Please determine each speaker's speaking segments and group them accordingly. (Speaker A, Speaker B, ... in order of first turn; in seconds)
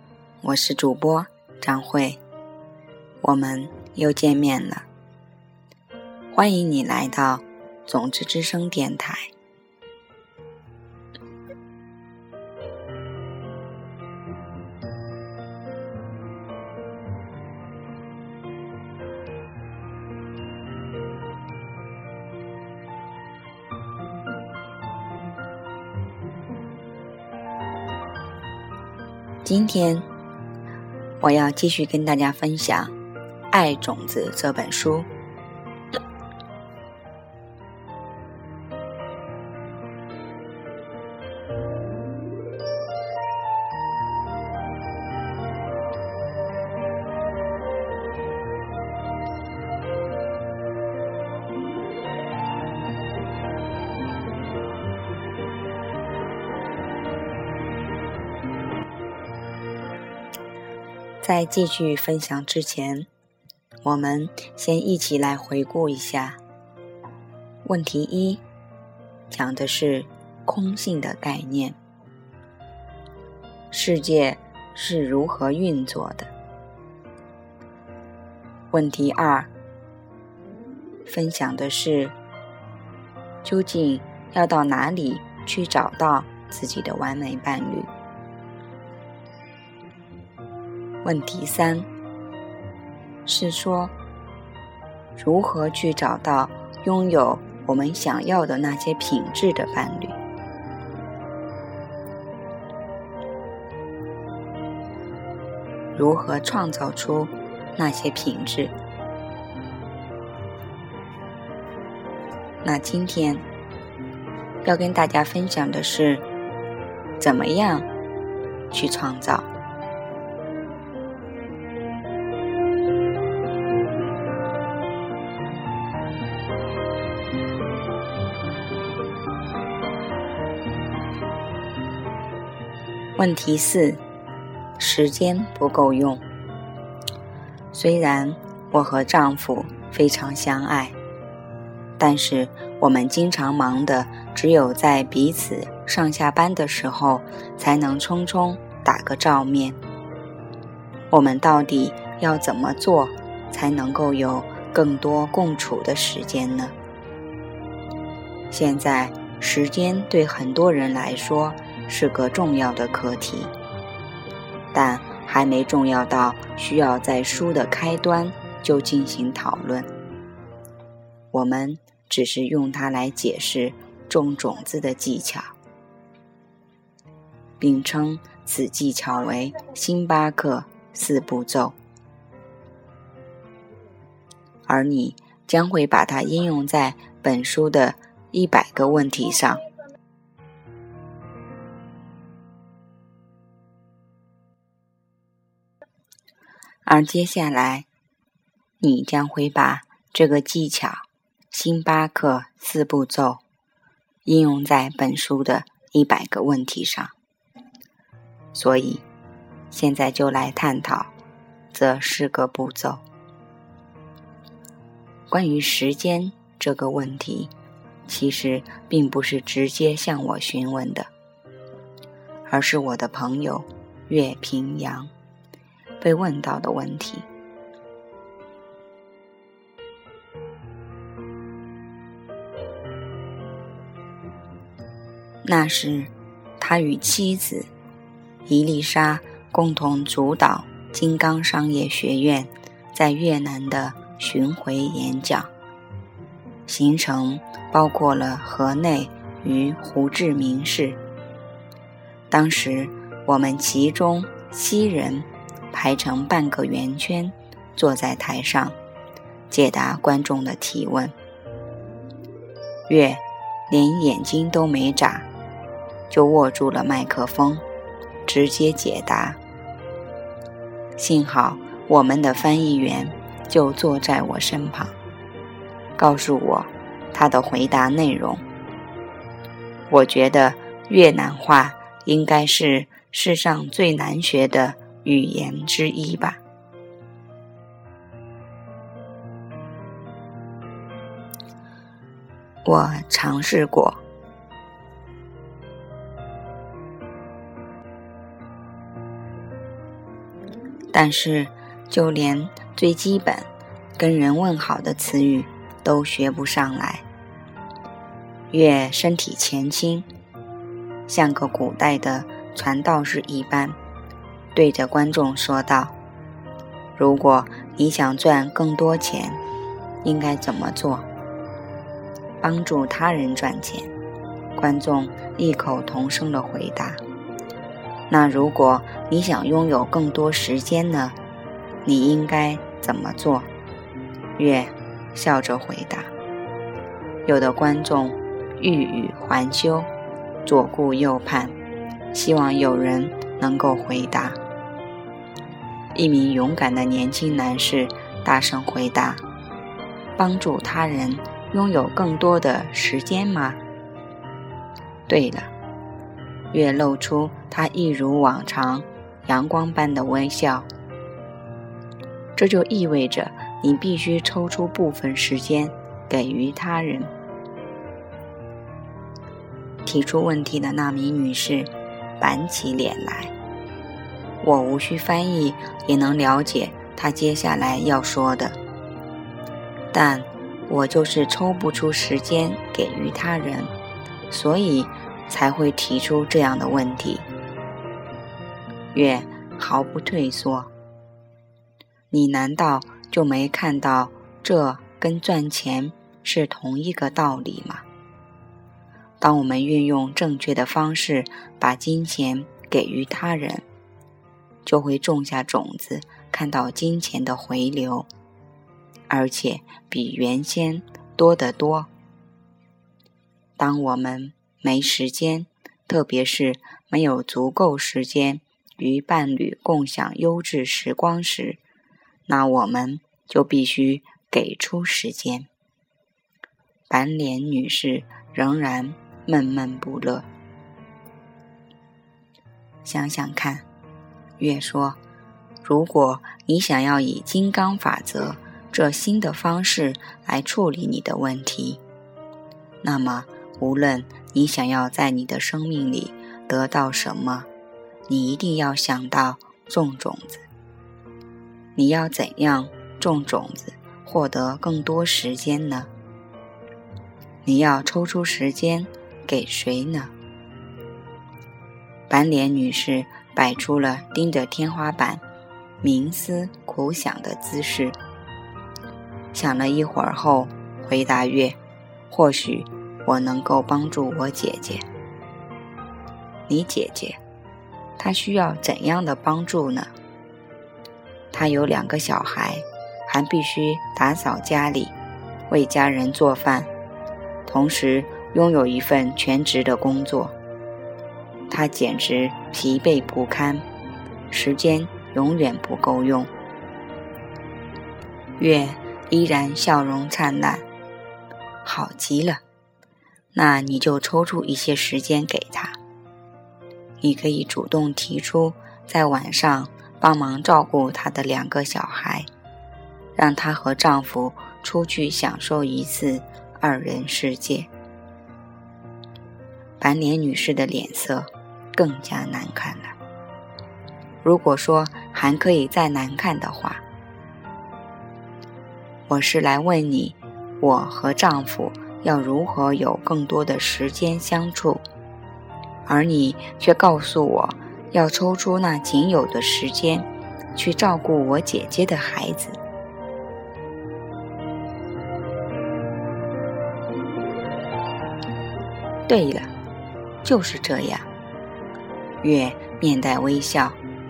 Speaker A: 0.4-2.2, 3.2-4.8, 6.3-9.3, 29.4-30.1, 31.2-32.9, 33.5-35.1, 61.2-63.1, 63.8-66.4, 67.6-68.4, 69.3-71.8, 73.7-76.3, 78.7-79.5, 81.0-82.2, 83.4-87.9, 91.0-91.9, 93.2-93.9, 95.2-100.2, 105.9-108.7, 112.6-113.4, 114.6-116.2, 117.2-117.9, 118.7-119.5, 133.2-134.0, 134.8-136.2, 137.7-141.0, 142.0-149.8, 151.1-156.8, 158.5-163.5, 164.7-169.9, 171.3-175.5, 177.6-181.8, 184.7-189.6, 196.8-197.9, 198.8-203.4, 204.2-207.1, 208.5-209.0, 209.7-211.1, 211.7-213.0, 215.3-217.5, 218.1-221.1, 222.5-225.1, 226.0-227.3, 235.4-237.7, 238.5-245.5, 246.7-251.0, 252.3-258.8, 259.5-261.1, 262.9-265.3, 266.1-267.6, 268.2-269.4, 271.0-274.9, 276.0-278.4, 279.9-286.4, 292.6-294.0, 300.9-307.1, 308.5-310.1, 311.1-313.8, 314.5-315.9, 316.9-319.4, 320.0-321.1, 322.4-323.9, 324.5-327.0, 328.1-331.2, 331.8-333.5, 334.4-336.1, 337.2-339.9, 340.4-341.6, 342.1-344.4, 345.9-349.2, 350.2-353.6, 355.1-355.5, 356.5-360.7, 362.4-367.1, 369.8-373.3, 374.4-378.6, 379.9-383.7, 384.3-387.3, 388.9-390.7, 392.1-397.8, 399.2-403.6, 404.6-408.1, 409.1-411.9, 413.6-421.6, 422.3-425.5, 426.9-430.3, 432.8-433.6, 434.4-435.0, 435.6-441.8, 442.8-447.5, 448.1-450.4, 451.7-455.9, 457.4-460.1, 462.1-465.2, 465.8-468.0, 469.3-471.6, 472.1-474.9, 476.5-477.2, 478.0-479.9, 481.3-484.9, 485.5-486.7, 487.4-490.3, 491.5-493.6, 494.3-496.3, 498.4-500.6, 501.6-502.4, 503.3-505.8, 507.0-512.3, 513.1-517.7, 519.8-523.0, 524.2-526.8, 529.1-534.8, 535.8-542.6, 549.1-549.5, 550.2-551.1, 552.2-553.8